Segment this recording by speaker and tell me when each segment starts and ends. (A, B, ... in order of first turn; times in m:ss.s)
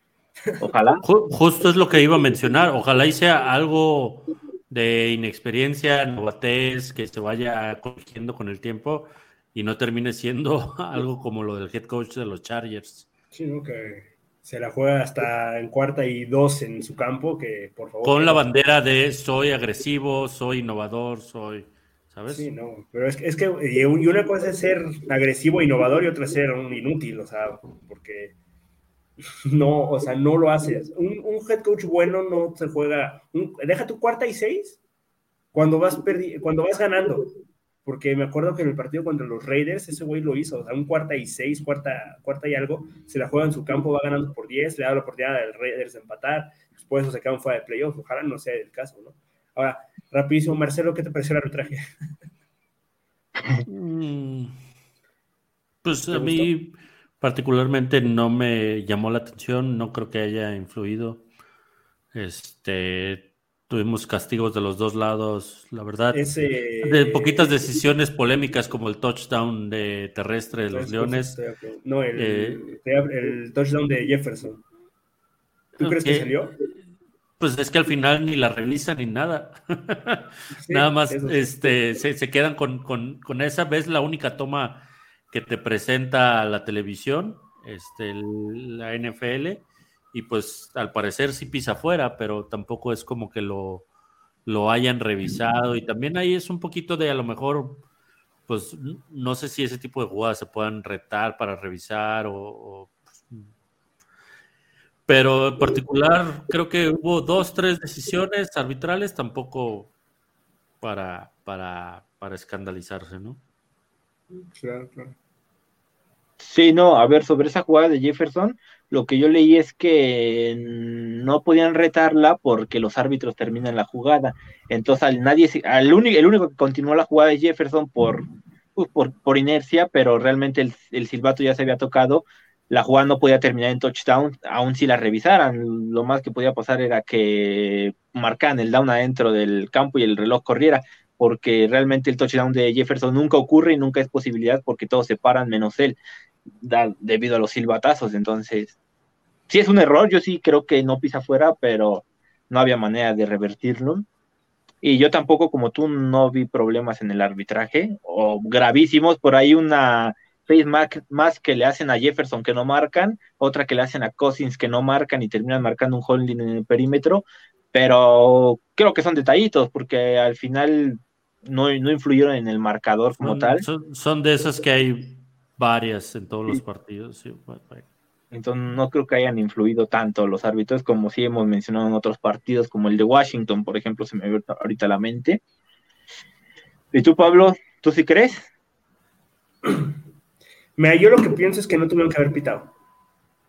0:00.6-0:01.0 A
0:01.0-0:13.1 B
0:13.3-0:18.4 C
0:18.0-0:22.5 B
0:22.3-0:28.3 C
0:29.5-0:34.8 C
0:35.5-0:37.3 C
0:37.8-0:51.8 C
0:53.6-0:54.5 B
0:55.8-1:01.2 B
0:56.1-0:56.5 C
1:02.1-1:06.3 B
1:06.1-1:07.4 C
1:06.8-1:11.4 B
1:10.7-1:14.6 C
1:12.2-1:12.7 B
1:15.8-1:16.5 C
1:15.8-1:16.4 B
1:17.4-1:33.8 B
1:20.6-1:21.7 C
1:34.4-1:37.8 B
1:38.5-1:43.4 B
1:45.1-1:49.9 B
1:50.8-1:53.4 B
1:54.3-1:55.2 C
1:56.4-2:26.0 A
2:26.6-2:28.8 A
2:29.5-2:34.0 A
2:34.8-2:53.6 A
2:53.2-2:57.8 B
2:58.3-3:05.4 A
3:06.9-3:08.5 A
3:09.6-3:09.9 C
3:10.8-3:12.7 C